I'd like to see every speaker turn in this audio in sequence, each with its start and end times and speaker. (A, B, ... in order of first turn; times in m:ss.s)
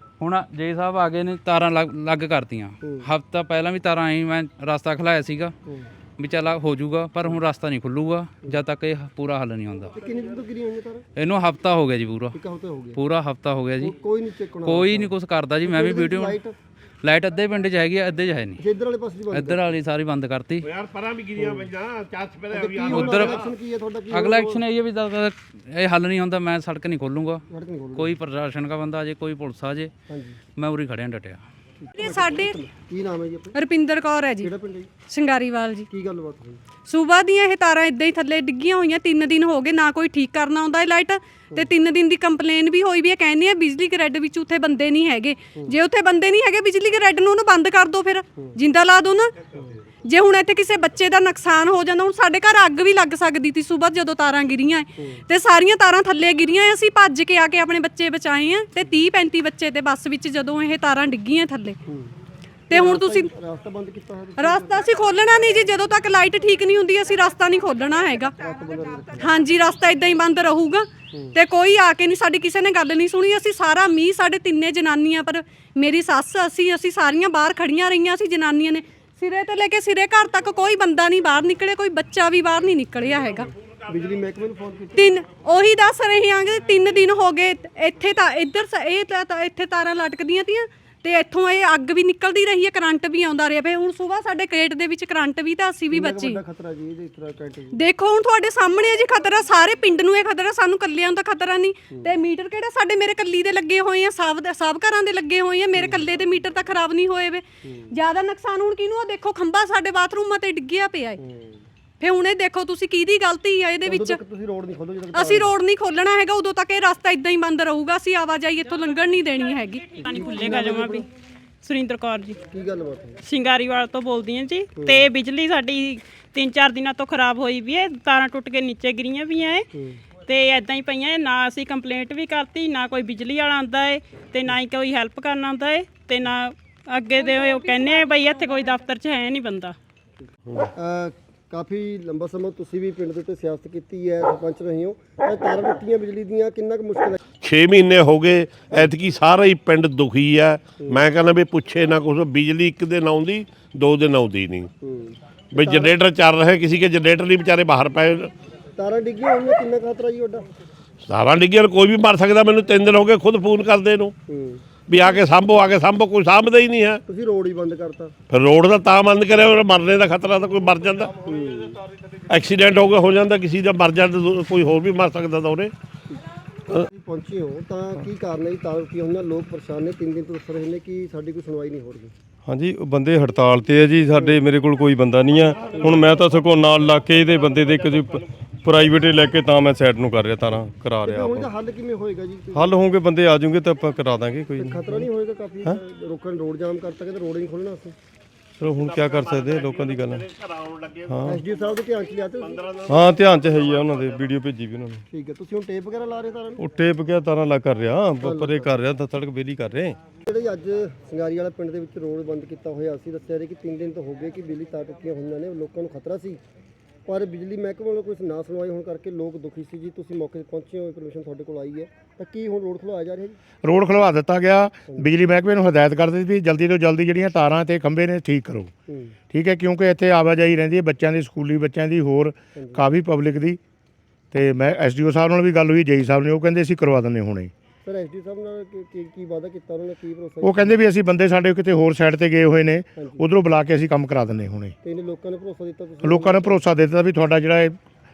0:00.2-0:05.5 A
0:02.8-0:03.1 B
0:06.2-0:10.0 A
0:09.9-0:11.0 B
0:11.2-0:12.4 A
0:12.3-0:13.0 B
0:12.9-0:14.0 A
0:13.8-0:16.6 B
0:14.6-0:16.4 A
0:17.0-0:18.6 A
0:18.6-0:19.7 B
0:19.3-0:20.7 A
0:20.6-0:23.4 C
0:21.4-0:21.7 B
0:22.5-0:24.6 B
0:22.9-0:23.4 A
0:24.1-0:27.4 A
0:27.5-0:28.1 B
0:28.0-0:29.9 A
0:30.1-0:30.4 B
0:30.6-0:31.4 A
0:31.8-0:33.6 B
0:32.0-0:32.6 D
0:33.5-0:34.5 D
0:34.4-0:34.9 B
0:35.1-0:35.9 D
0:35.9-0:36.6 B
0:36.8-0:49.4 D
0:49.5-0:49.8 B
0:50.0-1:01.8 D
1:01.9-1:02.1 B
1:02.7-1:03.3 D
1:02.7-1:04.8 B
1:04.4-1:08.3 D
1:08.4-1:09.3 B
1:09.2-1:23.5 D
1:11.1-1:11.4 B
1:23.9-1:25.1 B
1:25.0-1:36.4 D
1:35.9-1:37.8 B
1:37.7-1:51.2 D
1:41.9-1:42.2 B
1:45.7-1:46.1 B
1:47.6-1:47.9 B
1:51.2-1:51.7 B
1:52.0-1:54.2 D
1:53.8-1:55.5 B
1:55.1-2:00.5 D
2:00.0-2:01.1 E
2:00.0-2:01.0 B
2:01.6-2:02.4 E
2:02.5-2:03.2 B
2:03.2-2:09.7 E
2:04.8-2:05.1 B
2:09.7-2:10.0 B
2:10.2-2:19.7 E
2:17.3-2:18.7 D
2:20.6-2:27.2 B
2:27.4-2:34.7 C
2:30.8-2:31.0 B
2:34.8-2:36.0 B
2:35.5-2:38.3 C
2:38.8-2:40.4 B
2:41.0-2:44.1 C
2:44.3-2:44.6 B
2:44.9-2:47.0 C
2:47.0-2:48.1 B
2:48.3-2:51.2 C
2:51.2-2:51.8 B
2:52.3-2:55.7 C
2:56.7-3:02.1 B
3:02.4-3:11.5 F
3:04.1-3:04.4 B
3:05.6-3:06.1 B
3:11.0-3:12.8 B
3:12.5-3:15.1 F
3:14.6-3:17.9 B
3:18.6-3:20.3 F
3:18.7-3:21.3 C
3:21.1-3:21.4 F
3:21.2-3:22.7 B
3:22.4-3:24.1 C
3:22.8-3:25.0 F
3:25.1-3:26.6 B
3:26.6-3:30.0 F
3:28.2-3:28.7 B
3:30.2-3:36.4 B
3:37.0-3:43.4 B
3:43.6-3:48.7 G
3:48.9-3:49.1 B
3:49.3-3:53.6 G
3:52.6-3:52.8 B
3:54.3-3:57.5 G
3:57.8-4:00.8 B
4:00.4-4:04.8 G
4:03.0-4:03.2 B
4:04.8-4:06.6 B
4:06.0-4:07.8 G